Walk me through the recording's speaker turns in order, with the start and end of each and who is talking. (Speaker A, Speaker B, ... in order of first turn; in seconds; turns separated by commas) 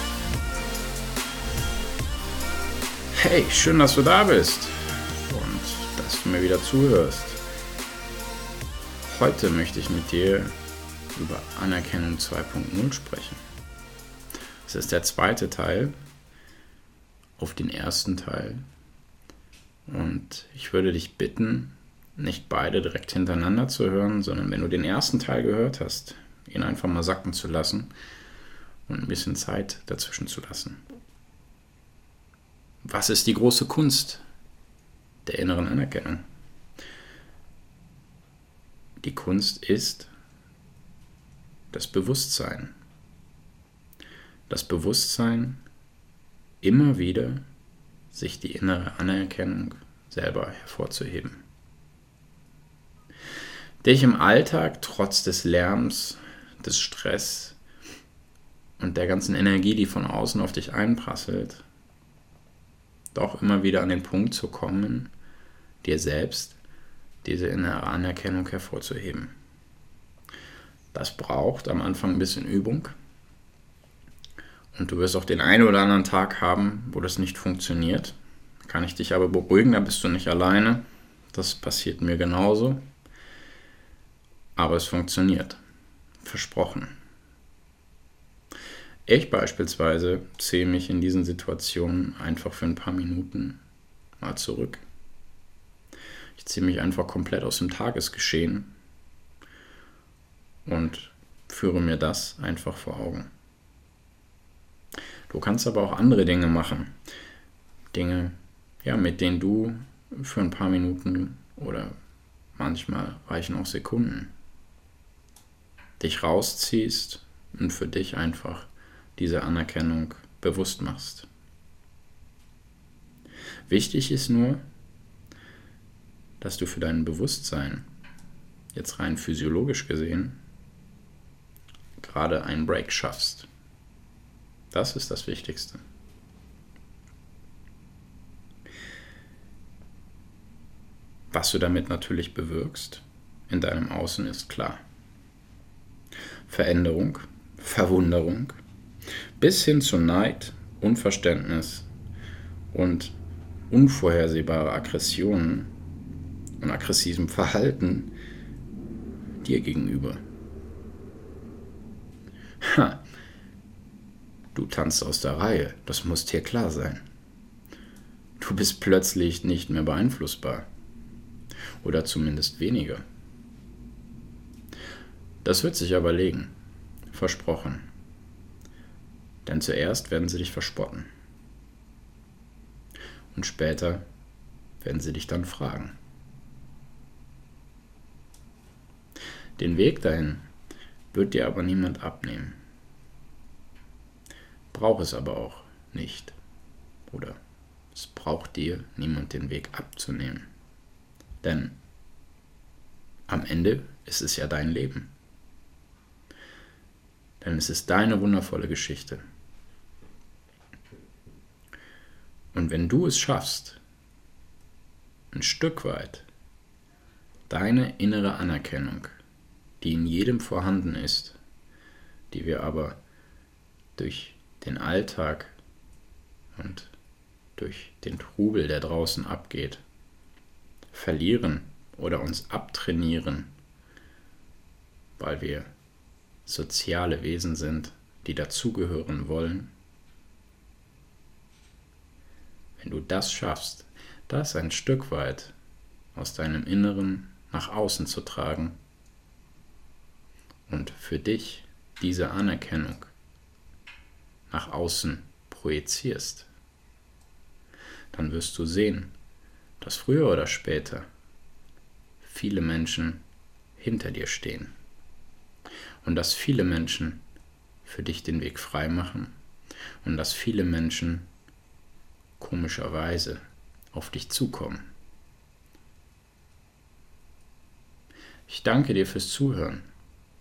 Speaker A: 3.1-7.4, Speaker A: 9.1-10.6, Speaker A: 11.1-13.4, Speaker A: 14.7-15.9, Speaker A: 17.4-18.6, Speaker A: 19.9-27.9, Speaker A: 28.9-30.8, Speaker A: 32.8-34.2, Speaker A: 35.2-36.2, Speaker A: 39.0-40.1, Speaker A: 41.7-42.7, Speaker A: 44.5-45.6, Speaker A: 46.6-47.4, Speaker A: 48.1-51.5, Speaker A: 53.8-57.6, Speaker A: 58.8-61.6, Speaker A: 63.1-65.1, Speaker A: 65.8-66.6, Speaker A: 67.2-69.3, Speaker A: 70.9-72.9, Speaker A: 74.7-82.8, Speaker A: 84.5-85.6, Speaker A: 86.2-86.9, Speaker A: 89.0-93.6, Speaker A: 94.2-94.8, Speaker A: 96.4-98.7, Speaker A: 100.6-103.3, Speaker A: 105.3-107.0, Speaker A: 107.9-111.9, Speaker A: 112.5-114.3, Speaker A: 116.0-121.3, Speaker A: 123.7-124.6, Speaker A: 126.4-127.9, Speaker A: 128.7-130.4, Speaker A: 132.0-133.5, Speaker A: 134.7-135.8, Speaker A: 141.3-144.8, Speaker A: 146.5-148.6, Speaker A: 149.4-151.9, Speaker A: 152.7-153.2, Speaker A: 153.7-155.7, Speaker A: 156.6-158.1, Speaker A: 159.4-160.2, Speaker A: 162.6-163.0, Speaker A: 164.5-167.0, Speaker A: 168.4-170.7, Speaker A: 171.8-173.0, Speaker A: 175.4-176.5, Speaker A: 177.1-177.9, Speaker A: 179.4-181.1, Speaker A: 183.3-184.1, Speaker A: 184.8-186.0, Speaker A: 189.6-190.5, Speaker A: 191.1-192.6, Speaker A: 194.7-196.4, Speaker A: 197.1-197.4, Speaker A: 197.9-200.5, Speaker A: 201.4-201.8, Speaker A: 203.3-205.1, Speaker A: 207.4-209.2, Speaker A: 212.5-213.8, Speaker A: 215.3-216.3, Speaker A: 217.5-219.2, Speaker A: 219.8-221.4, Speaker A: 222.3-223.0, Speaker A: 223.9-225.6, Speaker A: 226.5-226.9, Speaker A: 227.6-229.8, Speaker A: 230.9-233.5, Speaker A: 235.2-235.7, Speaker A: 236.4-239.7, Speaker A: 242.8-245.5, Speaker A: 246.1-248.8, Speaker A: 250.7-253.1, Speaker A: 254.5-256.5, Speaker A: 258.1-259.1, Speaker A: 259.8-261.1, Speaker A: 262.2-263.2, Speaker A: 263.8-264.7, Speaker A: 266.0-267.2, Speaker A: 267.8-269.3, Speaker A: 270.0-271.3, Speaker A: 272.4-273.4, Speaker A: 273.9-274.9, Speaker A: 278.5-279.9